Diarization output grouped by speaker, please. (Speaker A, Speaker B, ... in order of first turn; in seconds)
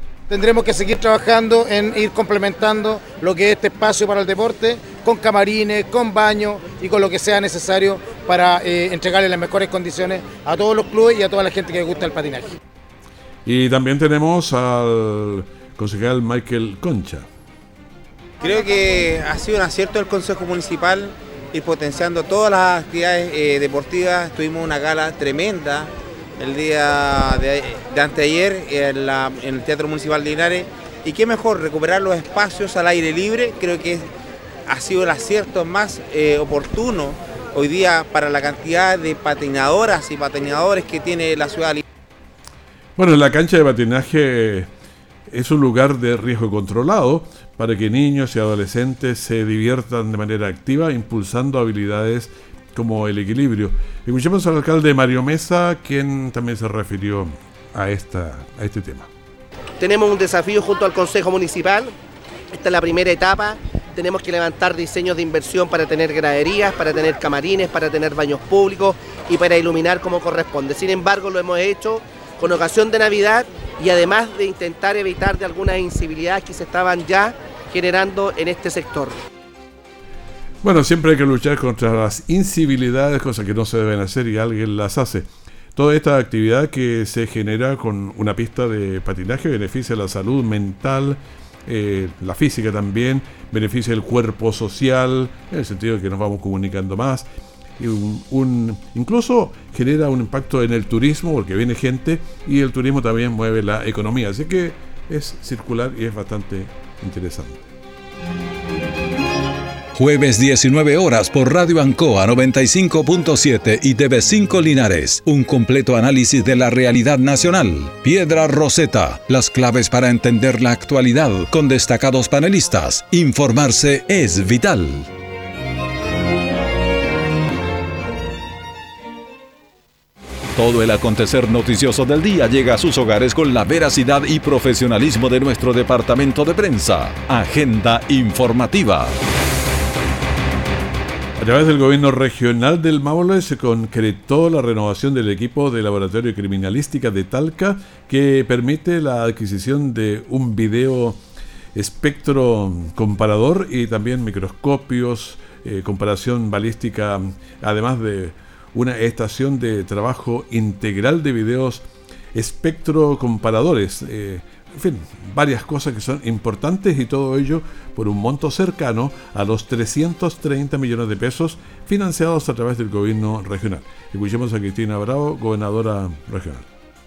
Speaker A: 0.3-12.6
Speaker B: 13.4-17.3, 43.0-44.7, 45.3-59.1, 80.6-97.3, 97.8-107.7, 141.4-151.2, 151.8-176.7
Speaker C: 18.4-34.1, 34.7-41.8
Speaker D: 59.8-61.9, 62.5-79.2
Speaker E: 110.0-125.1, 130.6-139.2